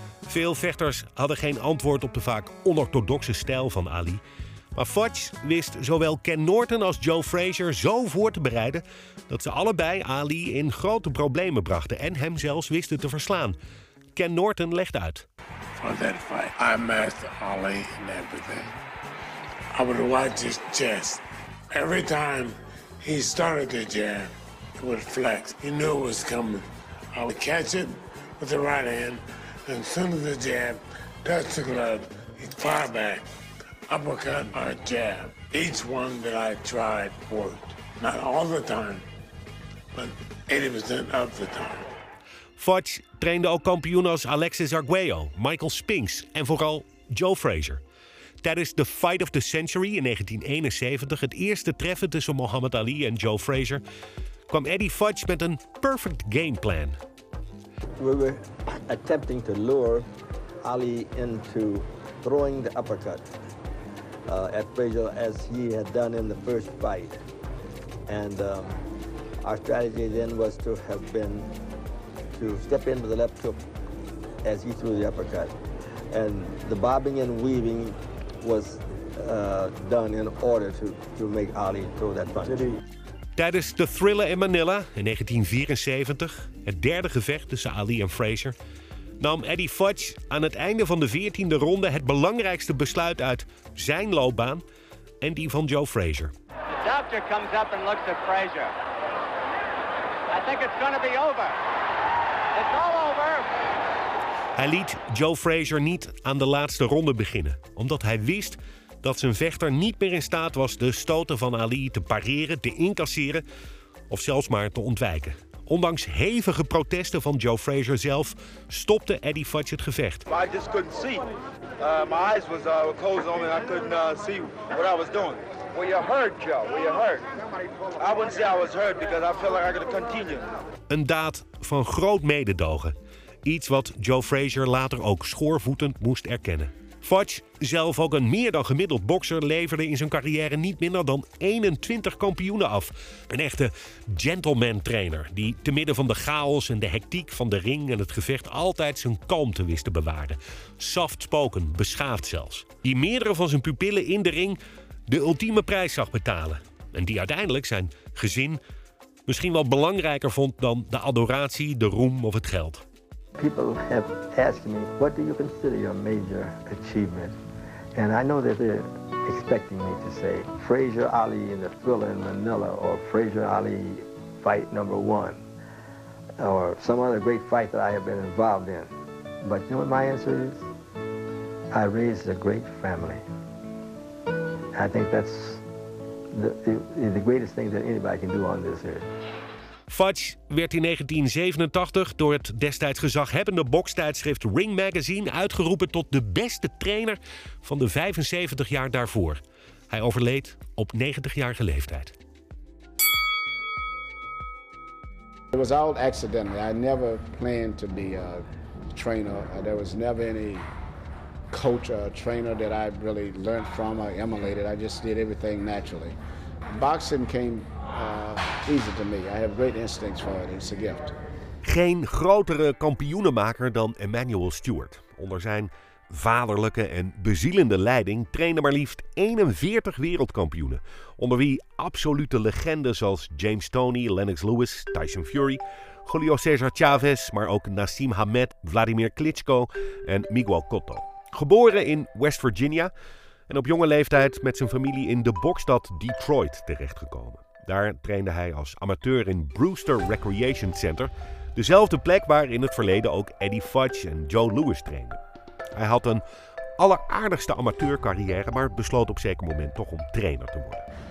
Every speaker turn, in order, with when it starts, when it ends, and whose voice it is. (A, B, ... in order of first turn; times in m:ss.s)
0:00.2-0:04.2 A
0:04.7-0:13.6 A
0:14.1-0:15.3 A
0:15.8-0:18.7 B
0:19.8-0:33.3 B
0:33.9-0:39.0 B
0:39.9-0:41.9 B
0:42.6-0:47.8 A
0:48.4-0:53.8 A
0:54.5-0:57.0 A
0:58.0-1:00.1 C
1:00.6-1:03.3 C
1:04.3-1:07.2 C
1:08.1-1:08.8 C
1:09.4-1:11.5 C
1:12.4-1:13.6 C
1:14.4-1:15.6 C
1:16.1-1:22.6 C
1:23.4-1:28.6 A
1:29.2-1:34.6 A
1:35.2-1:36.3 A
1:36.7-1:38.8 D
1:40.3-1:41.6 D
1:42.6-1:43.5 D
1:44.6-1:53.4 A
1:54.1-2:00.3 A
2:00.3-2:01.2 E
2:01.8-2:07.3 E
2:08.0-2:10.5 E
2:10.9-2:38.6 A
2:39.2-2:42.8 A
2:43.4-2:47.4 C
2:48.0-2:55.4 C
2:56.4-2:58.9 C
2:59.4-3:00.7 C
3:01.7-3:03.2 C
3:04.7-3:05.6 C
3:06.3-3:09.1 C
3:09.9-3:22.2 A
3:25.5-3:30.7 F
3:31.5-3:36.2 F
3:36.7-3:41.1 F
3:41.6-4:02.9 A
4:03.5-4:15.2 A
4:15.8-4:16.2 A
4:16.8-4:20.9 A